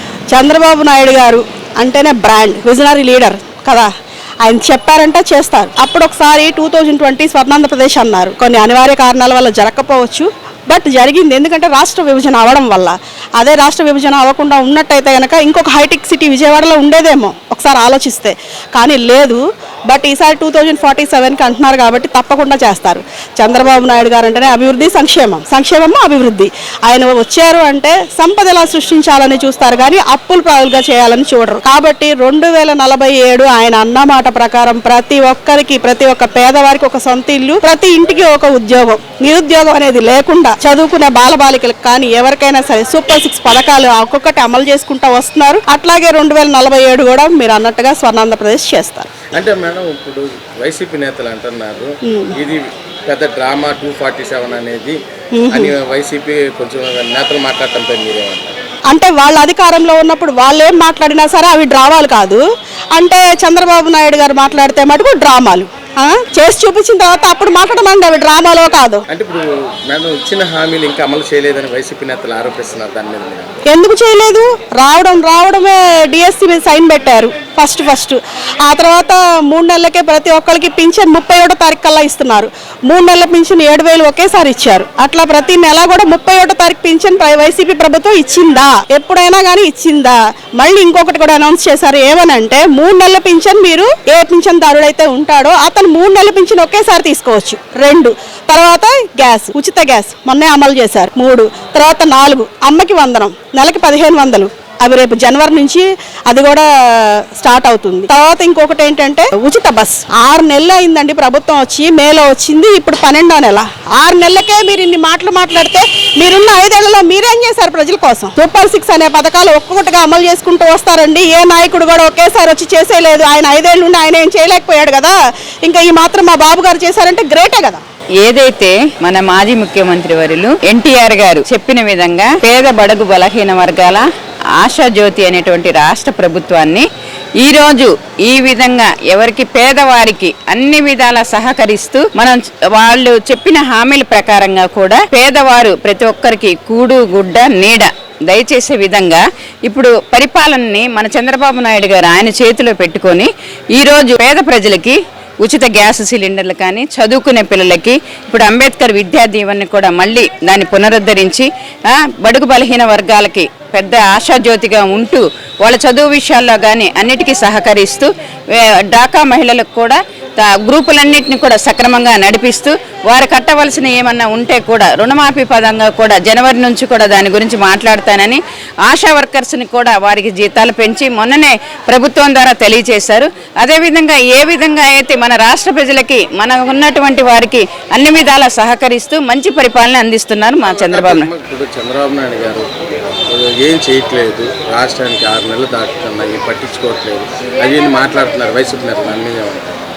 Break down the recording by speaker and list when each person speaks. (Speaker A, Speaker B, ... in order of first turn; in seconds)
Speaker A: 0.3-3.9, 4.4-49.1, 52.0-52.3, 55.3-55.7, 58.9-62.4, 63.0-69.1, 73.7-127.8
Speaker B: 49.3-55.0, 55.5-58.5, 69.1-73.6, 190.7-192.7, 193.3-199.7
Speaker C: 128.2-134.1, 134.6-136.9, 137.4-191.3